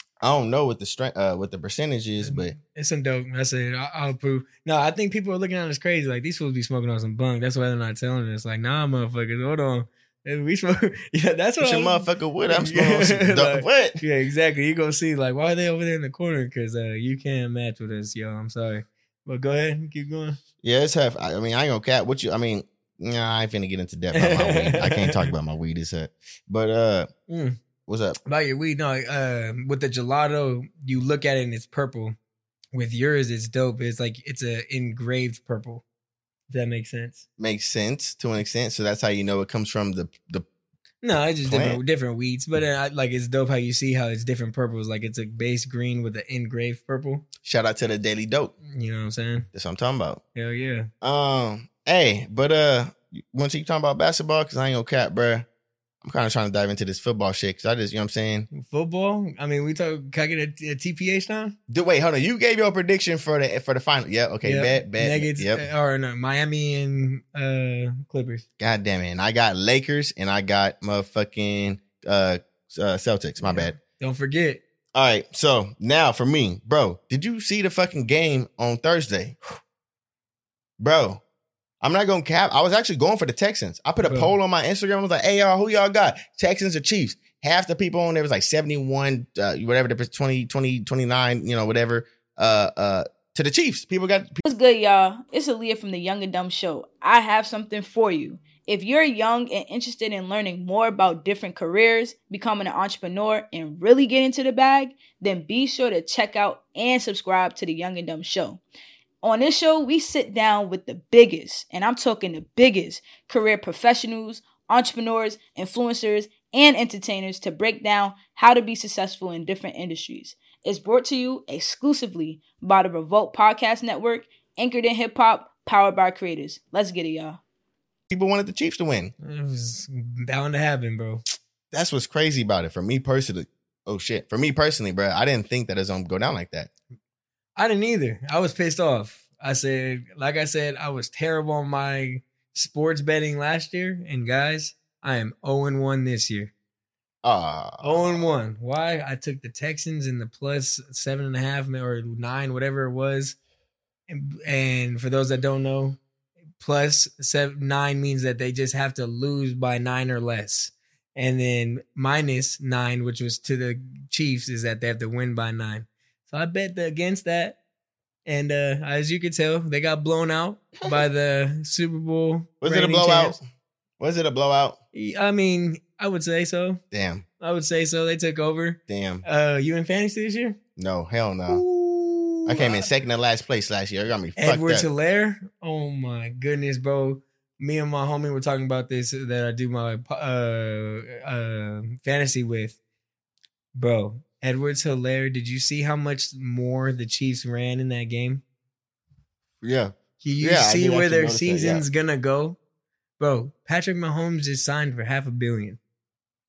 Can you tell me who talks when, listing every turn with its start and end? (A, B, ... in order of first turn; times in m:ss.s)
0:00.2-0:02.6 A
0:02.2-0:20.4 B
0:11.6-0:14.0 A
0:20.6-0:27.1 A
0:24.1-0:25.3 B
0:27.3-0:27.6 B
0:27.9-0:28.2 A
0:28.3-0:32.2 B
0:32.7-0:35.8 B
0:36.5-0:37.2 B
0:37.4-0:40.5 A
0:41.0-0:47.3 B
0:41.4-0:41.8 A
0:47.4-0:48.5 A
0:48.7-0:49.5 B
0:49.5-0:50.2 A
0:50.4-0:50.9 B
0:51.0-0:55.5 A
0:56.0-0:58.5 A
0:58.5-1:01.6 B
1:01.7-1:05.6 A
1:04.4-1:08.4 B
1:08.6-1:13.8 A
1:13.4-1:14.6 B
1:14.9-1:19.4 A
1:20.8-1:21.2 A
1:21.8-1:34.4 A
1:24.0-1:24.3 B
1:34.4-1:48.6 C
1:49.2-2:07.4 C
2:08.1-2:09.1 A
2:09.2-2:11.2 B
2:11.7-2:16.7 A
2:17.6-2:26.5 B
2:27.2-2:28.2 A
2:27.8-2:33.4 B
2:34.1-2:36.0 B
2:36.6-2:47.6 B
2:48.3-2:53.4 B
2:52.6-2:53.4 A
2:54.0-2:54.8 A
2:54.9-2:56.8 B
2:56.9-2:57.2 A
2:57.4-3:00.6 B
2:58.9-2:59.2 A
3:00.8-3:01.6 A
3:01.5-3:02.9 B
3:02.5-3:04.9 A
3:04.4-3:12.8 B
3:13.7-3:18.4 B
3:19.6-3:21.9 A
3:20.2-3:22.6 B
3:23.2-3:25.8 B